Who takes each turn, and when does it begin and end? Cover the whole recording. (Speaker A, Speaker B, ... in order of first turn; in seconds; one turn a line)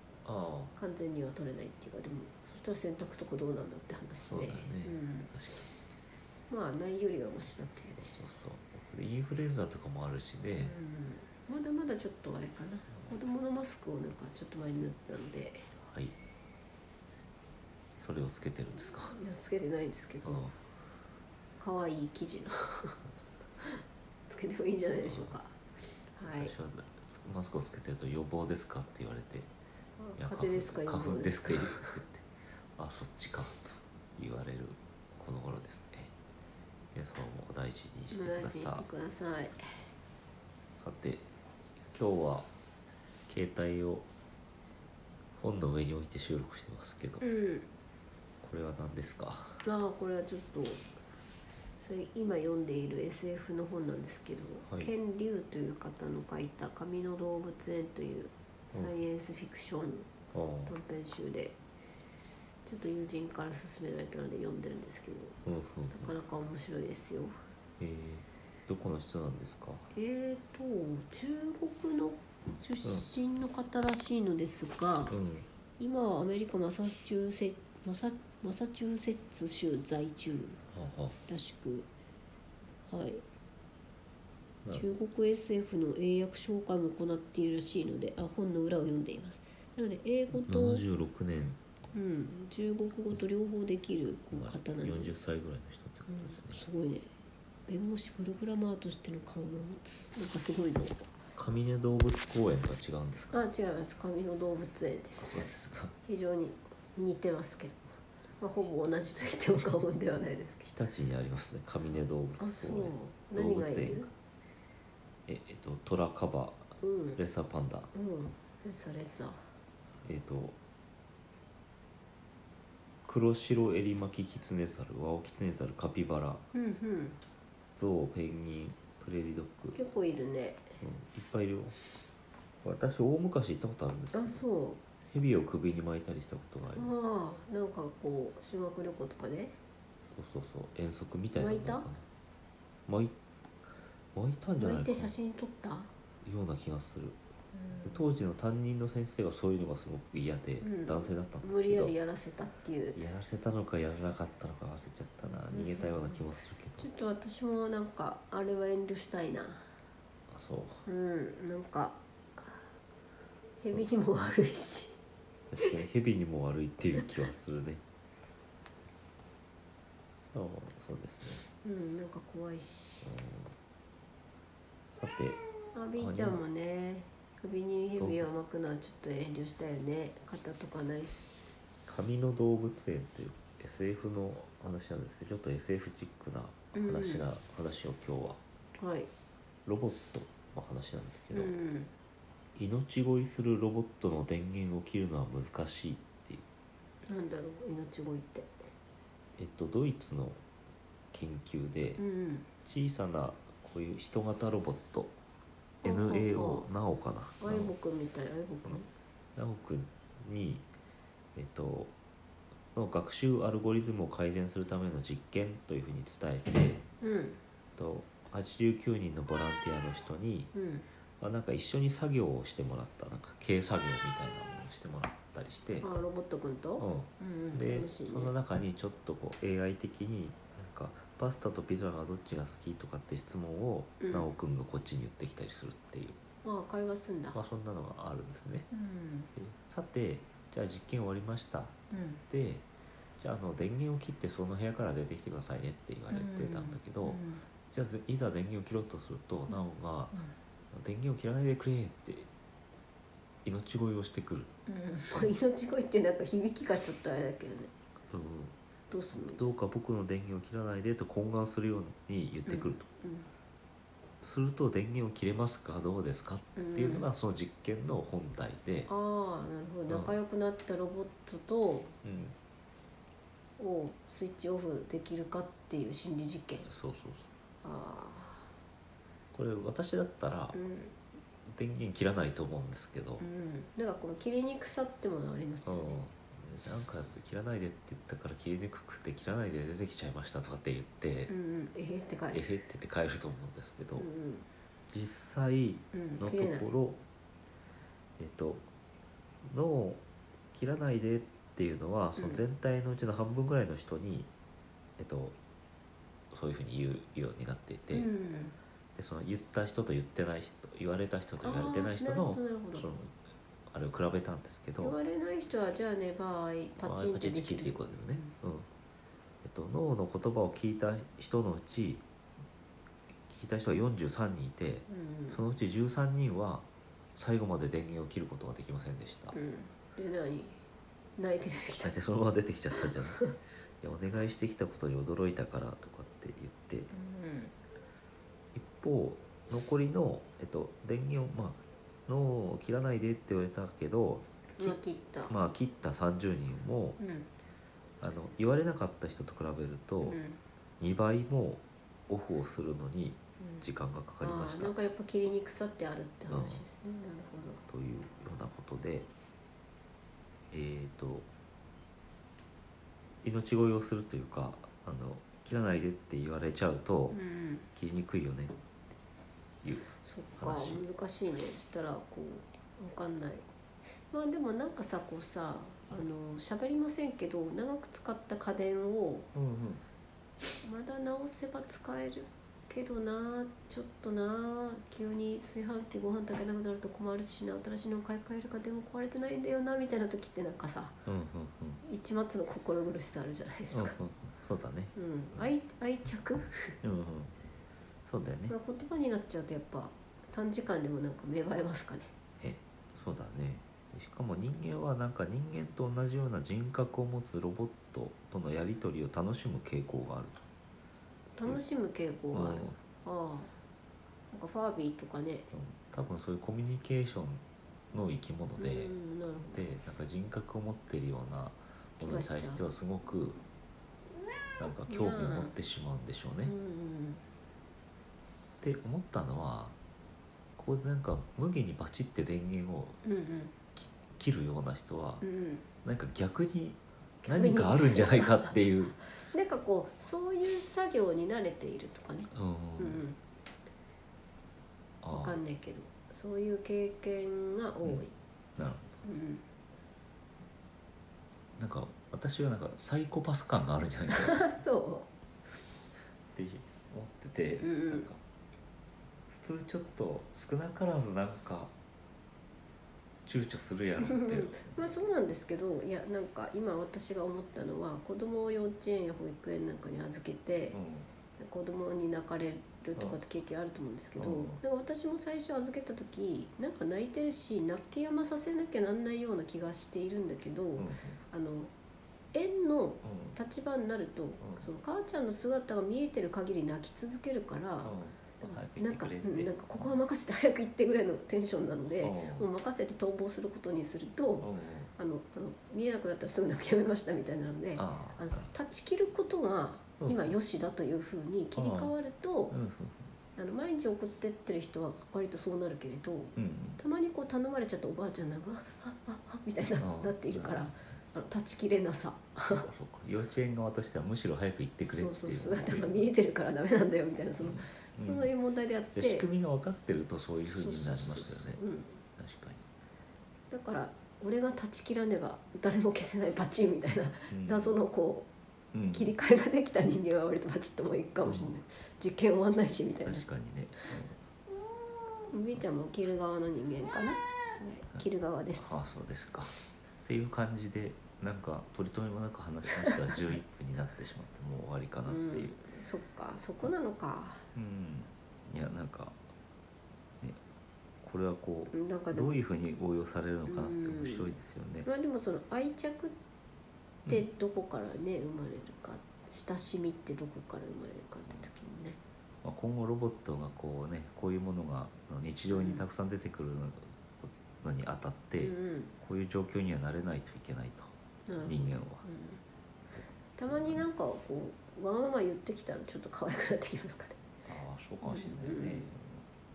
Speaker A: 0.2-0.8
Speaker B: 0.8-5.3
Speaker A: 4.3-5.7
Speaker B: 6.5-8.0
Speaker A: 7.8-10.8
Speaker B: 10.6-15.7
Speaker A: 15.8-16.2
Speaker A: 17.9-19.2
Speaker B: 19.1-20.4
Speaker A: 20.2-20.6
Speaker B: 21.6-22.9
Speaker B: 23.6-25.6
Speaker A: 25.0-25.4
Speaker B: 26.1-26.5
Speaker A: 26.3-29.5
Speaker B: 30.0-32.0
Speaker A: 30.2-36.1
Speaker A: 36.9-38.9
Speaker B: 38.1-39.9
Speaker A: 40.8-41.3
Speaker A: 41.9-42.5
Speaker A: 43.3-44.1
Speaker A: 45.4-47.2
Speaker B: 47.2-47.7
Speaker A: 48.4-49.6
Speaker B: 49.6-50.9
Speaker B: 51.8-60.1
Speaker A: 54.7-54.9
Speaker A: 60.3-60.7
Speaker B: 60.7-61.6
Speaker B: 62.7-65.4
Speaker A: 65.5-66.1
Speaker B: 65.9-67.4
Speaker A: 67.8-69.9
Speaker B: 69.9-75.1
Speaker A: 75.1-75.5
Speaker B: 75.8-80.6
Speaker A: 80.7-81.2
Speaker B: 81.3-81.9
Speaker B: 82.9-83.2
Speaker B: 84.7-90.8
Speaker A: 90.5-91.6
Speaker B: 91.9-95.1
Speaker A: 94.3-96.6
Speaker B: 96.1-97.1
Speaker B: 97.7-101.0
Speaker A: 101.4-103.5
Speaker B: 103.3-105.5
Speaker A: 105.3-105.9
Speaker B: 106.0-110.7
Speaker A: 110.7-114.1
Speaker B: 112.4-114.1
Speaker A: 115.3-117.9
Speaker B: 116.8-117.2
Speaker B: 117.9-119.5
Speaker A: 120.0-120.6
Speaker A: 123.0-126.4
Speaker B: 126.5-127.2
Speaker A: 127.8-129.8
Speaker B: 129.7-130.7
Speaker A: 130.8-131.8
Speaker A: 132.6-134.4
Speaker B: 134.1-134.8
Speaker A: 135.1-137.0
Speaker B: 136.7-139.6
Speaker A: 140.1-142.1
Speaker B: 141.3-141.9
Speaker A: 142.9-143.2
Speaker A: 144.1-145.1
Speaker B: 144.6-145.9
Speaker A: 146.2-147.2
Speaker B: 147.5-148.1
Speaker A: 147.8-151.9
Speaker B: 150.6-153.0
Speaker A: 152.9-156.9
Speaker B: 155.5-156.2
Speaker B: 156.8-159.8
Speaker A: 160.3-160.9
Speaker B: 160.9-162.7
Speaker B: 163.6-165.0
Speaker A: 165.5-167.8
Speaker A: 170.3-171.4
Speaker B: 171.6-173.2
Speaker A: 173.0-173.5
Speaker A: 174.9-175.4
Speaker B: 175.7-181.5
Speaker A: 176.0-176.4
Speaker A: 178.0-178.3
Speaker A: 181.9-188.4
Speaker B: 186.7-187.2
Speaker B: 188.8-189.1
Speaker A: 189.7-191.6
Speaker B: 191.3-191.9
Speaker A: 192.6-196.4
Speaker B: 197.1-198.6
Speaker A: 199.4-200.4
Speaker A: 201.1-202.0
Speaker B: 202.0-202.5
Speaker A: 202.7-205.2
Speaker A: 205.8-207.7
Speaker B: 205.8-206.7
Speaker B: 207.4-208.9
Speaker A: 209.4-210.7
Speaker A: 211.4-211.9
Speaker A: 212.8-216.8
Speaker B: 217.0-217.4
Speaker A: 217.8-220.5
Speaker B: 220.5-220.9
Speaker A: 221.2-225.9
Speaker B: 225.8-228.3
Speaker A: 226.8-236.2
Speaker B: 234.0-234.3
Speaker B: 236.4-237.4
Speaker A: 237.3-238.7
Speaker B: 238.7-239.3
Speaker A: 239.3-241.8
Speaker B: 241.9-242.2
Speaker A: 242.3-242.7
Speaker A: 243.2-250.2
Speaker B: 246.1-247.4
Speaker B: 249.5-250.3
Speaker A: 250.7-252.3
Speaker A: 253.4-254.5
Speaker B: 254.7-257.7
Speaker A: 258.1-258.6
Speaker B: 258.9-259.6
Speaker A: 259.1-262.9
Speaker B: 262.5-263.3
Speaker A: 264.2-268.9
Speaker B: 266.6-267.1
Speaker B: 268.9-271.9
Speaker A: 269.9-270.2
Speaker A: 272.0-272.4
Speaker B: 273.6-276.7
Speaker A: 276.6-277.3
Speaker B: 277.6-278.6
Speaker A: 279.3-280.6
Speaker B: 280.5-281.0
Speaker A: 281.5-283.2
Speaker B: 283.2-286.0
Speaker A: 285.6-291.3
Speaker B: 291.3-292.5
Speaker A: 292.3-294.1
Speaker B: 294.0-294.5
Speaker A: 294.9-297.0
Speaker B: 295.9-296.7
Speaker A: 298.2-298.6
Speaker A: 299.4-300.0
Speaker A: 300.5-304.3
Speaker B: 302.2-302.4
Speaker A: 305.0-305.4
Speaker A: 306.3-308.1
Speaker B: 307.9-308.6
Speaker A: 309.0-313.1
Speaker B: 311.4-312.9
Speaker A: 313.7-315.0
Speaker B: 314.8-318.3
Speaker A: 316.8-318.7
Speaker A: 319.4-322.0
Speaker A: 323.3-329.4
Speaker B: 324.9-325.4
Speaker B: 329.3-330.6
Speaker B: 331.2-332.0
Speaker A: 331.8-336.9
Speaker B: 336.9-337.5
Speaker A: 338.5-347.0
Speaker B: 344.6-345.4
Speaker B: 347.0-347.3
Speaker A: 348.0-350.2
Speaker B: 350.0-350.4
Speaker A: 350.8-354.7
Speaker B: 354.2-357.6
Speaker A: 356.3-356.6
Speaker A: 357.7-359.1
Speaker A: 360.5-361.3
Speaker A: 363.2-367.2
Speaker B: 367.1-367.7
Speaker A: 367.8-368.6
Speaker A: 369.6-370.9
Speaker B: 370.0-373.4
Speaker B: 374.1-379.3
Speaker A: 379.3-379.8
Speaker B: 380.6-391.0
Speaker A: 391.1-391.8
Speaker B: 391.8-394.0
Speaker A: 393.7-395.5
Speaker B: 394.9-396.8
Speaker A: 396.8-397.3
Speaker A: 398.1-398.5
Speaker B: 398.5-402.1
Speaker A: 402.4-410.5
Speaker B: 411.4-413.6
Speaker A: 412.3-412.8
Speaker B: 414.3-415.5
Speaker A: 415.5-419.0
Speaker B: 418.6-419.6
Speaker A: 419.5-423.4
Speaker B: 422.0-422.6
Speaker A: 424.6-426.5
Speaker B: 424.9-425.5
Speaker B: 426.4-427.2
Speaker A: 428.6-429.8
Speaker A: 430.6-433.0
Speaker B: 433.0-433.5
Speaker A: 433.8-435.2
Speaker B: 435.2-435.6
Speaker A: 435.8-439.0
Speaker B: 437.2-438.5
Speaker B: 439.2-443.2
Speaker A: 442.3-443.0
Speaker A: 445.0-445.4
Speaker B: 445.1-448.1
Speaker A: 448.6-449.0
Speaker B: 449.0-449.4
Speaker A: 451.6-454.5
Speaker B: 454.1-455.1
Speaker A: 456.3-458.2
Speaker B: 457.6-458.1
Speaker A: 459.3-461.7
Speaker A: 463.2-465.2
Speaker B: 464.0-470.8
Speaker A: 470.7-471.1
Speaker B: 471.4-481.7
Speaker A: 474.2-474.6
Speaker A: 480.8-481.2
Speaker B: 482.3-502.5
Speaker A: 483.0-483.4
Speaker A: 484.4-484.7
Speaker A: 487.8-490.0
Speaker A: 492.0-492.5
Speaker A: 494.4-494.9
Speaker A: 497.8-498.5
Speaker A: 500.0-500.3
Speaker A: 501.6-501.9
Speaker A: 502.5-503.1
Speaker B: 503.4-512.7
Speaker A: 506.4-506.8
Speaker A: 509.8-510.8
Speaker A: 512.5-516.1
Speaker B: 514.8-519.3
Speaker A: 517.4-518.3
Speaker A: 518.9-521.6
Speaker B: 520.5-522.0
Speaker A: 522.2-522.6
Speaker B: 523.5-528.3
Speaker A: 527.3-527.8
Speaker A: 528.7-529.1
Speaker B: 528.9-533.3
Speaker A: 531.2-531.6
Speaker A: 533.0-534.2
Speaker B: 535.3-538.9
Speaker A: 538.6-545.6
Speaker B: 545.1-547.5
Speaker A: 547.5-549.2
Speaker A: 551.0-554.9
Speaker B: 551.7-552.4
Speaker B: 553.5-556.2
Speaker B: 557.1-562.0
Speaker A: 562.4-572.0
Speaker B: 565.5-565.9
Speaker B: 568.4-568.9
Speaker B: 571.3-572.4
Speaker A: 573.0-573.9
Speaker B: 573.4-577.2
Speaker A: 577.5-579.2
Speaker B: 578.0-578.9